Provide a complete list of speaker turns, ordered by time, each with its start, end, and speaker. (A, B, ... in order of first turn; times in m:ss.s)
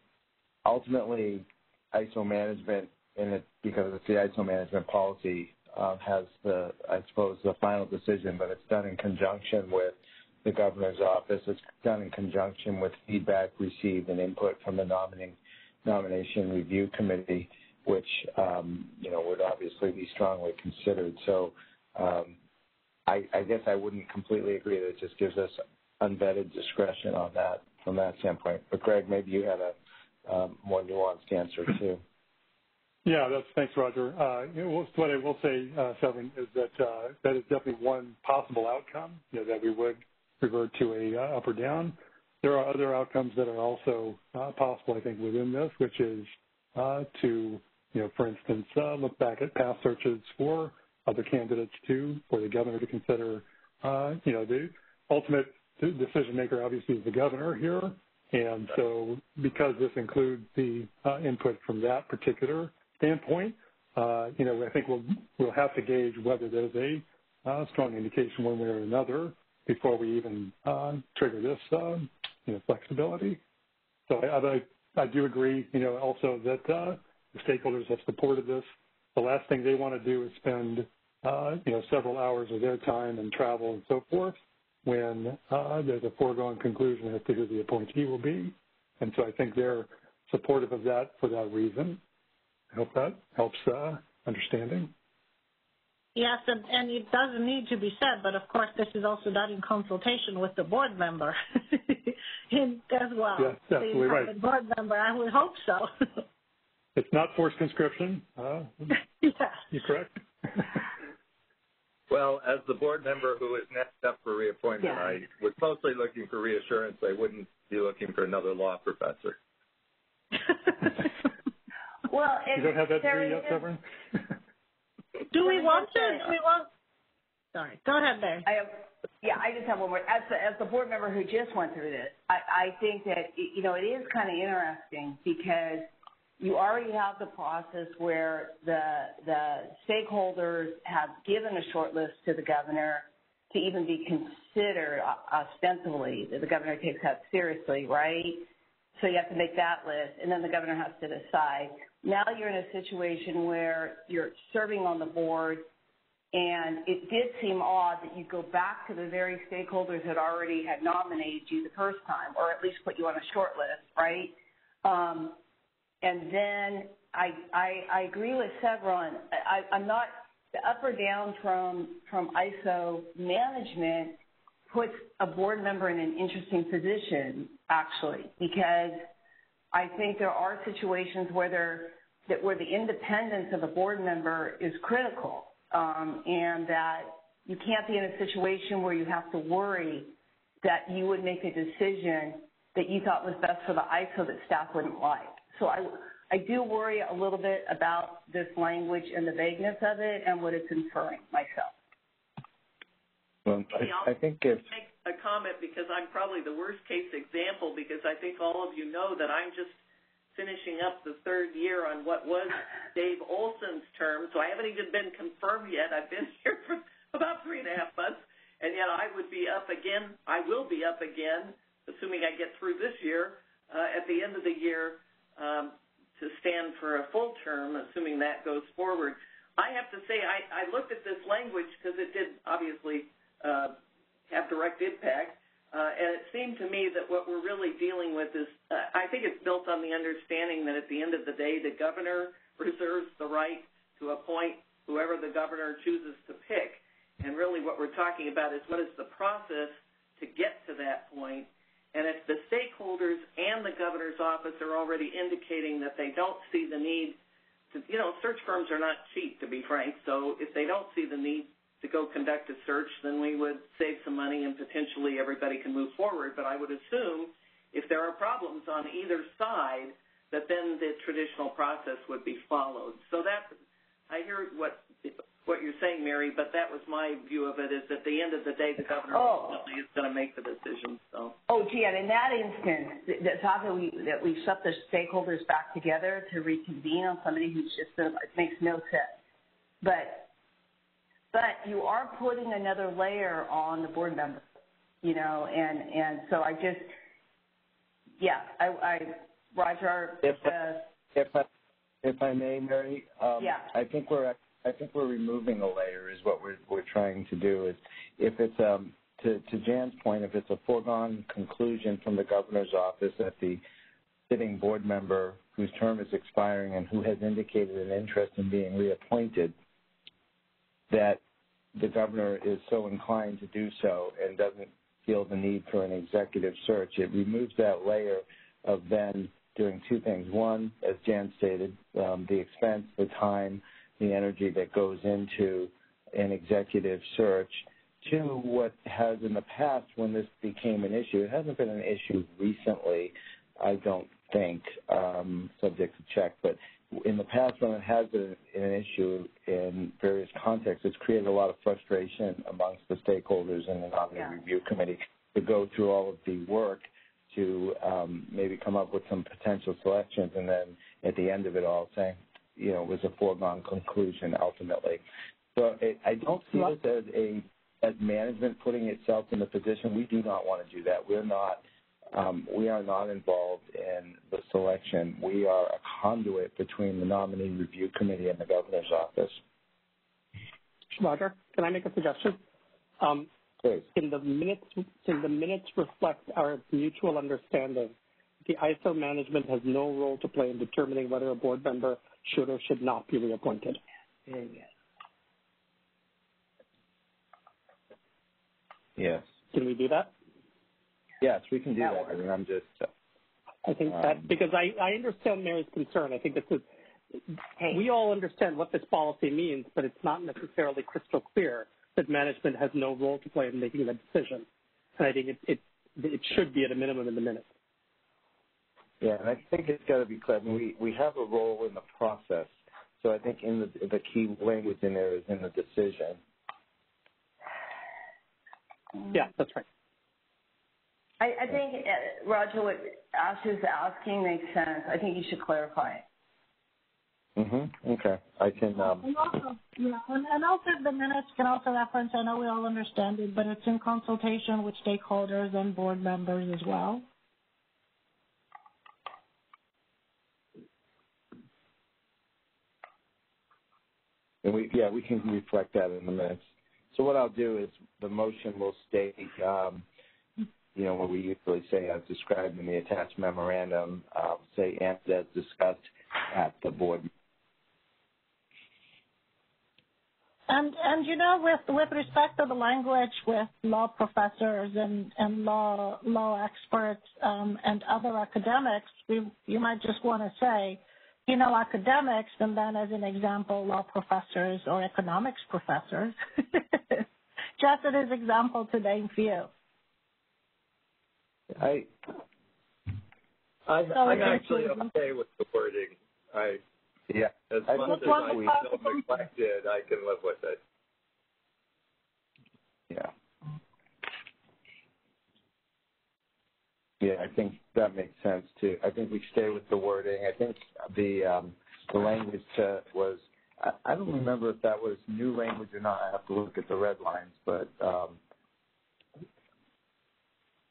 0:00.6-0:22.4 A
0:23.1-0:29.7 A
0:30.2-0:32.0 A
0:33.0-1:13.4 B
1:14.1-1:32.0 B
1:32.7-1:34.9 B
1:36.1-1:45.9 C
1:43.4-1:44.3 B
1:46.9-1:49.0 B
1:49.2-1:49.6 C
1:49.7-1:50.8 B
1:52.1-1:59.4 D
2:02.1-2:03.7 E
2:02.5-2:04.2 B
2:05.3-2:06.7 C
2:05.4-2:06.4 E
2:07.5-2:08.5 C
2:08.4-2:35.7 E
2:36.3-2:45.4 E
2:46.0-2:59.1 E
2:59.7-3:21.7 E
3:23.4-3:24.7 A
3:23.7-3:24.2 F
3:24.7-3:29.8 F
3:30.3-4:17.2 F
4:17.7-4:33.5 F
4:34.1-4:41.4 F
4:39.1-4:39.7 E
4:41.5-4:49.2 E
4:49.8-4:50.3 E
4:51.3-4:54.4 E
4:55.0-4:56.9 E
4:58.2-5:00.9 E
5:00.2-5:00.5 A
5:01.1-5:01.4 A
5:02.0-5:13.6 A
5:03.4-5:03.7 E
5:14.3-5:19.5 A
5:20.9-5:21.2 A
5:21.7-6:05.0 A
6:05.5-6:19.4 A
6:21.0-6:22.4 G
6:23.0-6:23.3 G
6:23.9-6:27.9 G
6:28.4-6:33.8 G
6:34.3-6:34.6 E
6:39.0-6:39.3 A
6:39.5-6:40.1 G
6:41.2-6:42.9 A
6:41.8-6:42.2 E
6:43.6-6:46.6 G
6:43.9-6:44.3 A
6:47.6-6:54.4 G
6:55.0-6:57.5 G
6:59.0-7:06.2 A
7:09.1-7:09.6 G
7:11.2-7:16.0 E
7:17.4-7:19.1 A
7:18.8-7:27.0 C
7:34.4-7:36.4 A
7:36.9-7:39.8 A
7:40.7-7:47.1 A
7:50.5-8:07.0 C
8:07.6-8:09.5 C
8:11.6-8:11.9 A
8:13.6-8:16.6 D
8:13.9-8:14.9 C
8:17.1-8:18.6 A
8:17.5-8:20.6 D
8:17.8-8:19.0 C
8:27.0-8:38.2 A